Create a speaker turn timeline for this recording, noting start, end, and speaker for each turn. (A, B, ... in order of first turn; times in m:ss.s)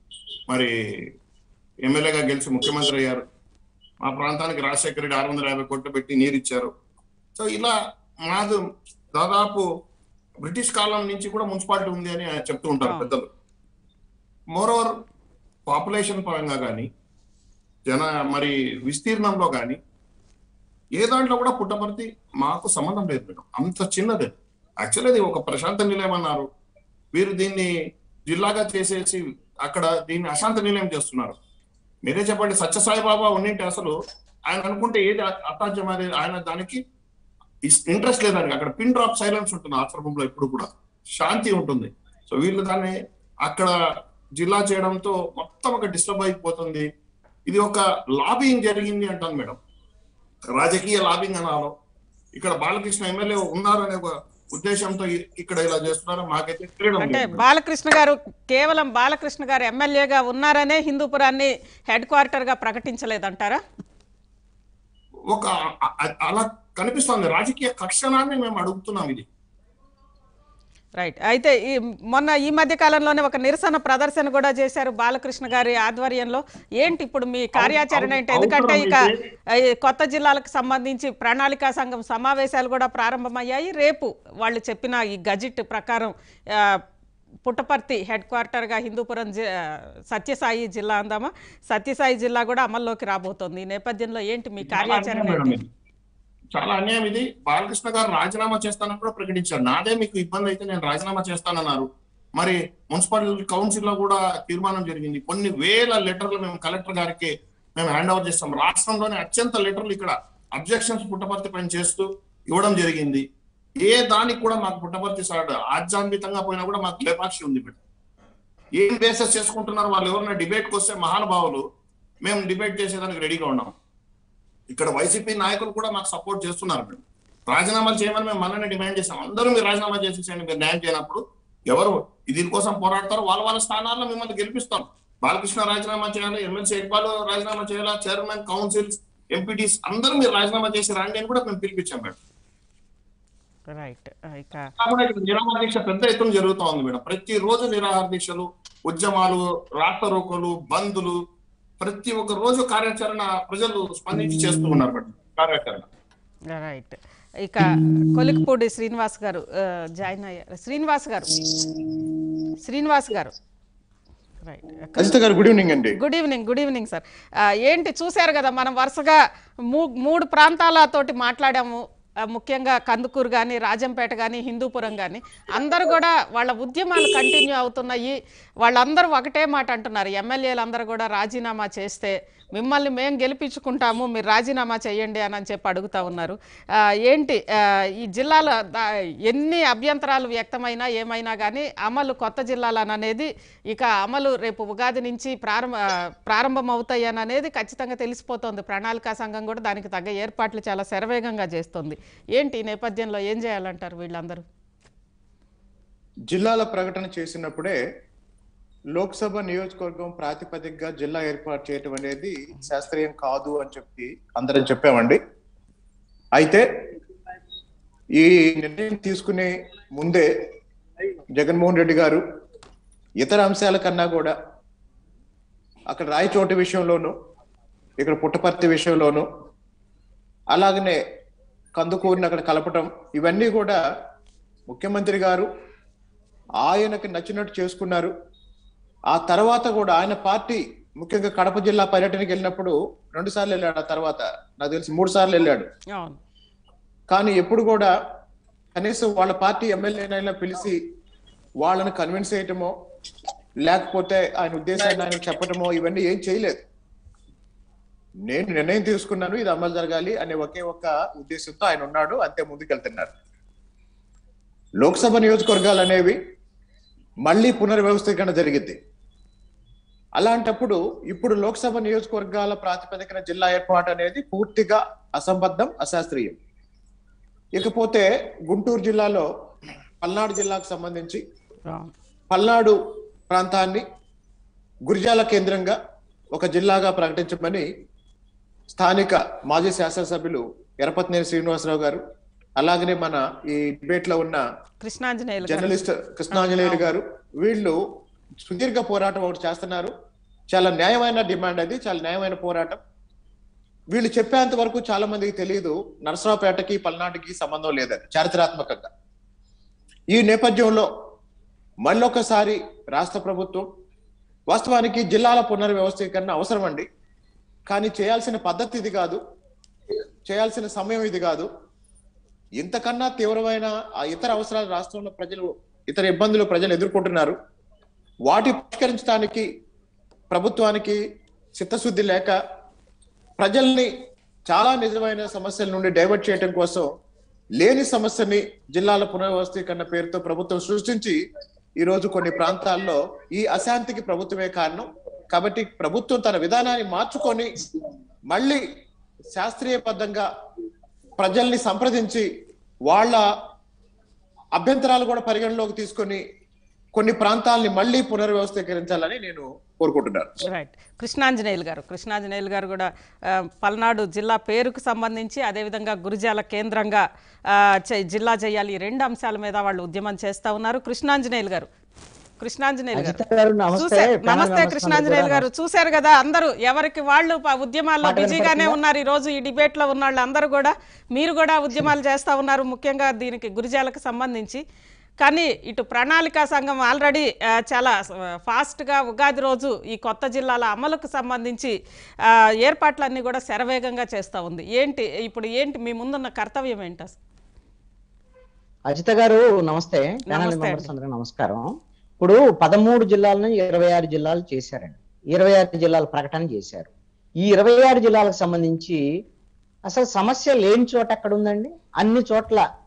0:01.8-0:03.2 A
0:04.0-0:06.7 A
0:07.4-0:08.6 A
0:09.1-0:09.7 A
0:10.4-0:13.3 A
0:14.5-0:14.9 A
0:15.7-0:16.9 A
0:17.9-0:19.8 A
0:21.0-0:24.3 A
0:24.8-0:26.5 A
0:27.1-0:27.7 A
0:28.3-0:31.4 A
0:32.0-0:33.9 A
0:34.5-0:36.8 A
0:37.7-0:43.7 A
0:44.4-0:46.9 A
0:47.5-0:49.6 A
0:50.5-0:51.7 A
0:52.4-0:57.4 A
0:57.0-1:03.6 B
1:05.3-1:09.3 A
1:11.0-1:19.0 B
1:17.6-1:19.2 A
1:19.8-1:26.7 B
1:27.4-1:29.5 B
1:30.1-1:35.6 B
1:34.7-1:35.7 A
1:36.6-1:41.9 A
1:42.4-1:53.2 A
1:53.8-1:57.8 A
1:58.8-2:01.6 A
2:02.2-2:03.7 A
2:04.7-2:22.2 A
2:23.7-2:24.7 B
2:24.8-2:31.2 A
2:31.8-2:35.9 A
2:36.5-2:41.4 B
2:42.6-2:43.4 B
2:44.4-2:45.2 B
2:45.0-2:46.0 C
2:46.0-2:47.0 B
2:47.6-2:49.2 B
2:49.7-3:06.4 B
3:07.0-3:07.4 B
3:08.0-3:24.4 B
3:26.3-3:27.8 C
3:29.0-3:35.2 C
3:36.4-3:36.6 C
3:38.2-3:40.3 C
3:41.4-3:42.2 C
3:43.2-3:44.4 C
3:45.9-3:47.1 C
3:48.0-3:49.3 C
3:50.5-3:51.0 C
3:51.8-3:53.8 C
3:54.7-3:55.5 C
3:56.6-3:58.1 C
3:59.1-4:05.7 C
4:06.0-4:06.2 B
4:07.1-4:07.9 C
4:08.8-4:10.8 C
4:11.6-4:12.7 C
4:13.6-4:16.6 C
4:18.3-4:23.1 C
4:24.8-4:26.2 C
4:27.3-4:28.8 C
4:30.2-4:36.4 C
4:37.6-4:39.3 C
4:40.0-4:41.2 C
4:42.3-4:42.8 C
4:43.3-4:43.8 C
4:44.9-4:45.8 C
4:46.3-4:47.7 C
4:48.7-4:52.0 C
4:52.6-4:54.4 C
4:54.8-4:56.9 B
4:55.4-4:57.8 C
4:58.4-4:59.9 C
5:00.5-5:02.8 C
5:03.9-5:08.9 C
5:10.2-5:10.9 C
5:11.8-5:13.7 C
5:14.5-5:16.9 C
5:17.7-5:19.2 C
5:20.3-5:21.5 C
5:22.6-5:27.4 C
5:28.3-5:29.4 C
5:30.3-5:31.0 C
5:31.6-5:32.4 C
5:33.4-5:33.9 C
5:34.5-5:36.9 C
5:37.6-5:41.2 C
5:41.8-5:47.5 C
5:48.3-5:48.6 C
5:49.4-5:50.3 C
5:51.2-5:52.2 C
5:52.9-5:53.2 C
5:54.6-5:56.2 C
5:57.0-6:00.3 C
6:00.5-6:02.9 B
6:03.6-6:11.7 B
6:12.4-6:13.2 B
6:13.0-6:15.5 D
6:13.8-6:24.6 B
6:18.0-6:18.8 D
6:25.2-6:28.0 B
6:28.5-6:31.7 B
6:32.6-6:37.2 B
6:38.9-6:41.7 D
6:40.3-6:40.9 B
6:42.2-6:46.9 D
6:47.5-6:49.0 D
6:49.9-6:52.6 D